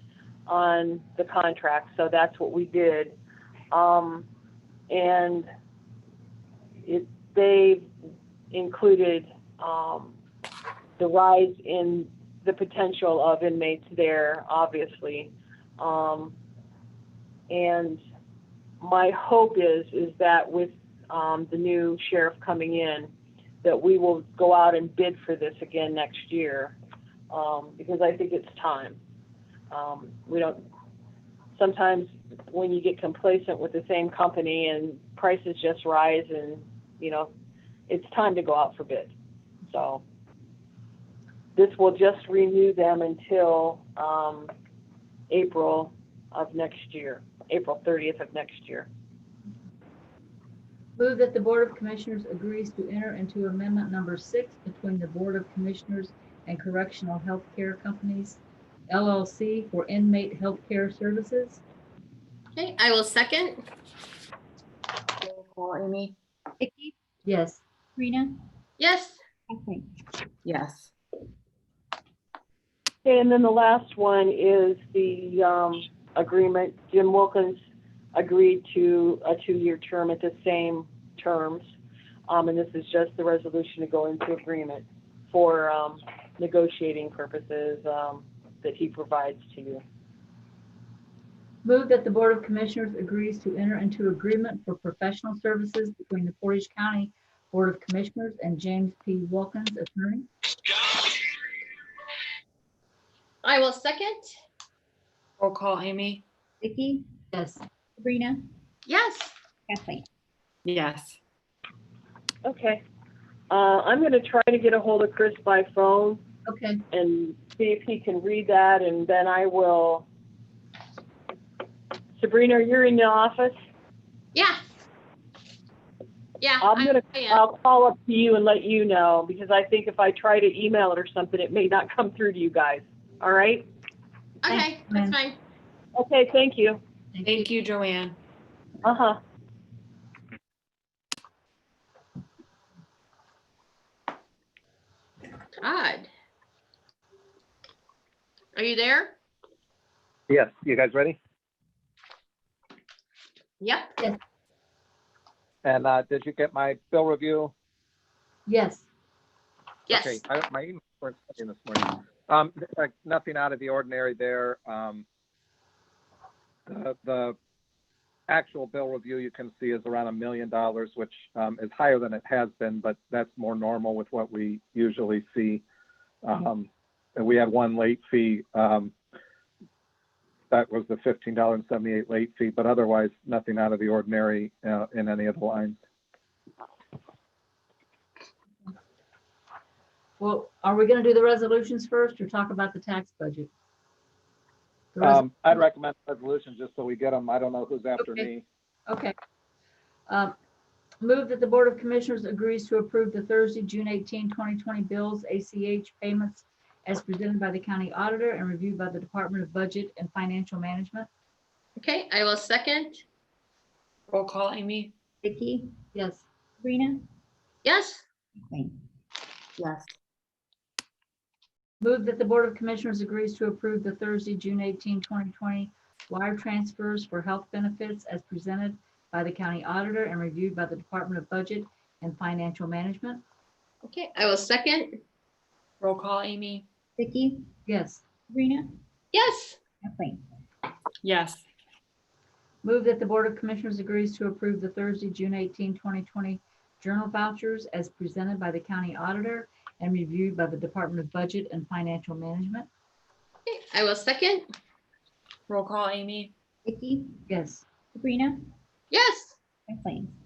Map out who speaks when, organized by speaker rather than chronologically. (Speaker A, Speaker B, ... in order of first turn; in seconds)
Speaker A: 0.5-3.2, 3.7-4.3, 4.9-5.5, 6.8-7.9, 8.5-10.2, 11.0-16.4, 17.5-18.0, 18.8-23.1, 23.6-26.8, 27.3-29.0, 29.7-30.6, 31.6-37.3, 37.9-39.1, 39.6-40.0, 41.5-44.5, 45.3-48.9, 73.0-77.6, 78.1-81.7, 82.3-89.8, 112.5-112.8, 113.5-116.2, 116.9-120.1, 122.2-123.6, 126.6-133.7, 136.0-136.8, 138.8-139.2
Speaker B: 51.0-61.6, 67.3-67.6, 91.6-100.3, 107.3-107.6, 116.5-116.8, 134.5-135.2, 137.2-137.5, 158.5-158.8, 190.2-193.5, 194.9-195.2, 198.0-198.3, 198.9-199.1, 200.1-200.3, 201.0-211.1, 215.9-216.2, 221.8-233.2, 237.7-238.1, 242.6-252.7, 257.3-257.7
Speaker C: 62.6-63.6, 68.8-69.2, 103.4-104.3, 108.9-109.3, 124.3-124.6, 126.4-127.4, 134.4-135.4, 145.6-146.1, 148.6-149.2, 153.6-154.0, 159.9-160.2, 211.8-213.0, 217.7-218.0, 233.8-235.0, 239.1-239.6, 253.5-254.5, 258.9-259.4
Speaker D: 65.2-66.2, 70.4-70.9, 105.4-106.2, 110.7-111.2, 137.2-138.2, 214.1-214.9, 219.6-219.9, 235.8-236.7, 241.0-241.4, 255.5-256.3
Speaker E: 66.6-66.9, 68.0-68.4, 69.5-69.8, 106.6-107.0, 108.0-108.4, 109.7-110.1, 215.2-215.8, 216.6-217.0, 218.5-218.8, 237.0-237.5, 238.3-238.8, 239.8-240.2, 256.7-257.2, 257.9-258.4, 259.7-260.1
Speaker F: 150.3-151.2, 155.6-157.5, 159.9-165.1, 166.7-167.4, 168.3-175.6, 176.2-178.9, 180.5-185.8, 195.0-198.4